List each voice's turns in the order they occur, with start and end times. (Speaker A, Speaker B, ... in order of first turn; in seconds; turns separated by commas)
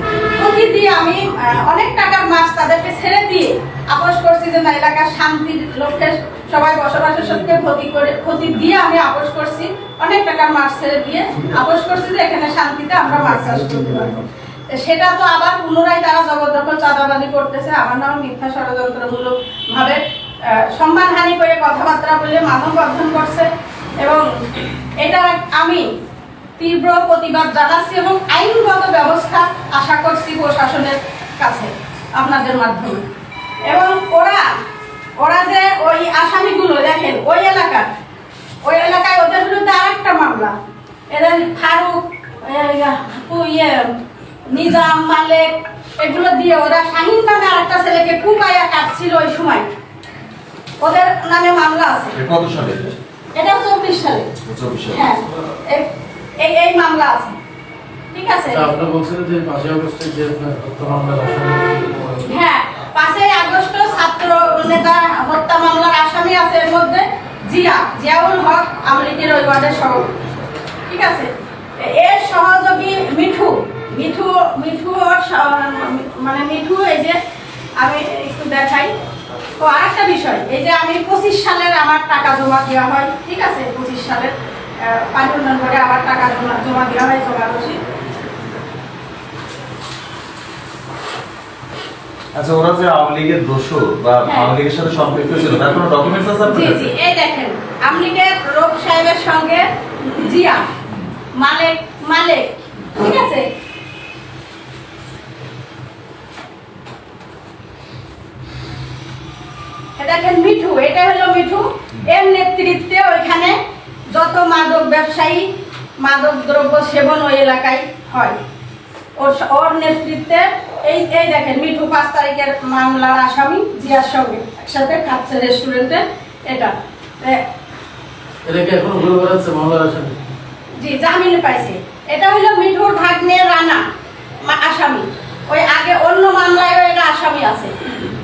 Speaker A: 0.3-23.5, Speaker A: 24.0-24.3, Speaker A: 25.0-25.9, Speaker A: 26.6-33.0, Speaker A: 33.6-34.5, Speaker A: 35.2-37.9, Speaker A: 38.6-40.5, Speaker A: 41.1-44.0, Speaker A: 44.5-49.7, Speaker A: 50.8-52.2, Speaker B: 52.1-52.9, Speaker A: 53.3-54.3, Speaker B: 54.4-55.0, Speaker A: 54.9-57.3, Speaker A: 58.1-58.7, Speaker C: 58.5-62.2, Speaker A: 62.2-70.2, Speaker A: 70.9-77.2, Speaker A: 77.8-78.9, Speaker A: 79.6-87.8, Speaker B: 92.3-96.9, Speaker A: 94.2-94.5, Speaker A: 96.4-100.7, Speaker A: 101.3-103.5, Speaker A: 110.0-113.6, Speaker A: 114.1-118.4, Speaker A: 119.2-127.4, Speaker C: 128.4-130.2, Speaker A: 130.8-133.8, Speaker A: 134.4-137.8